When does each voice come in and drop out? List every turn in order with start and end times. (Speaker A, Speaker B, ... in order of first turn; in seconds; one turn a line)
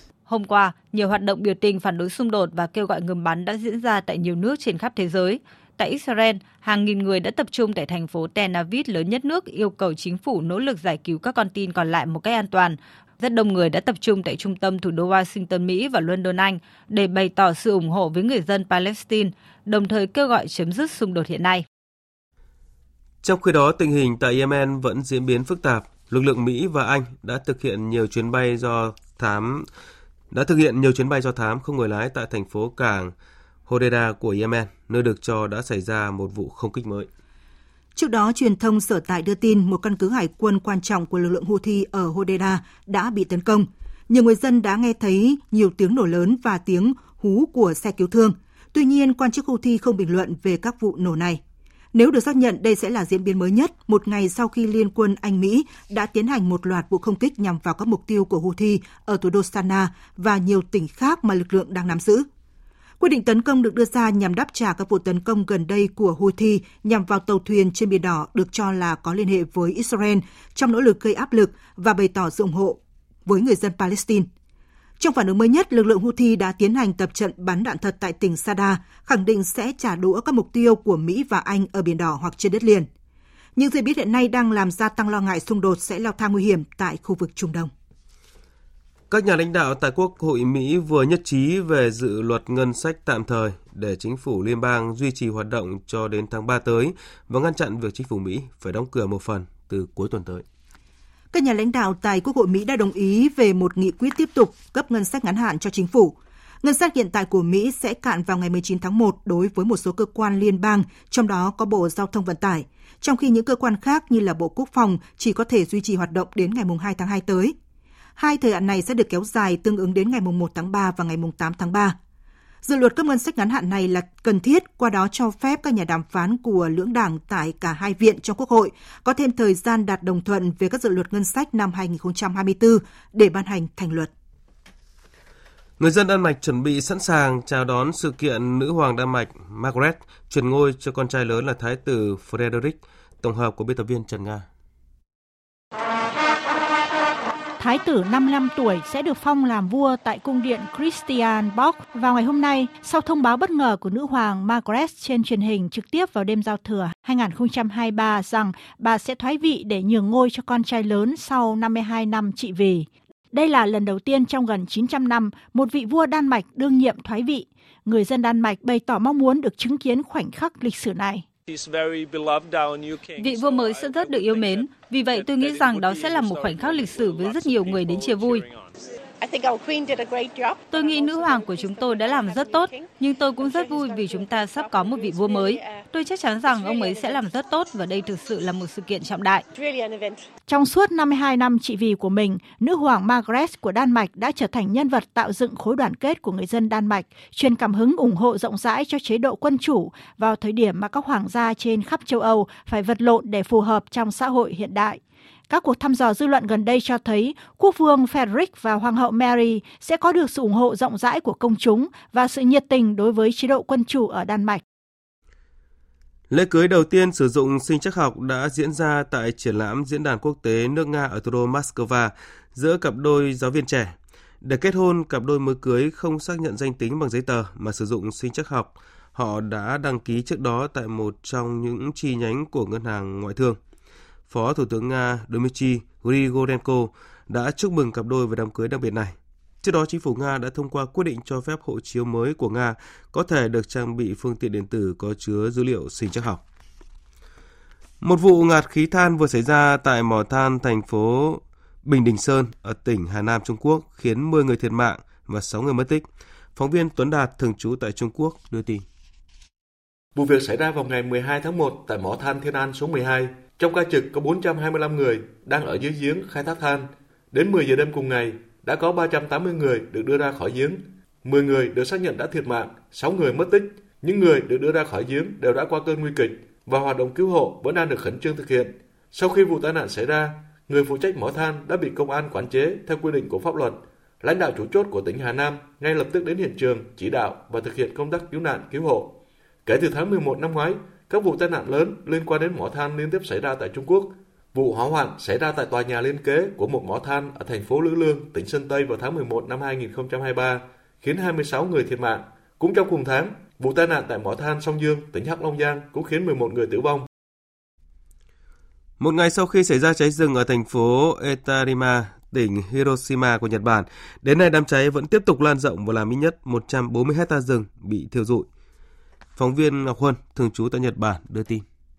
Speaker A: 0.3-21.6
Speaker B: 23.2-29.7
Speaker B: 30.3-33.1
Speaker B: 33.6-37.1
Speaker C: 37.9-51.4
Speaker C: 51.9-62.3
Speaker C: 63.0-74.3
Speaker C: 75.0-82.9
Speaker C: 83.5-87.7
Speaker B: 89.1-100.4
Speaker C: 101.3-117.5
Speaker C: 118.2-122.0
Speaker C: 122.6-134.1
Speaker B: 135.8-144.4
Speaker D: 147.6-171.2
Speaker A: 173.2-178.4
Speaker A: 180.7-189.4
Speaker D: 190.5-214.6
Speaker B: 216.3-233.6
Speaker B: 234.3-246.4
Speaker B: 248.0-258.8
Speaker E: 260.1-307.1
Speaker B: 309.0-318.5
Speaker B: 319.4-321.6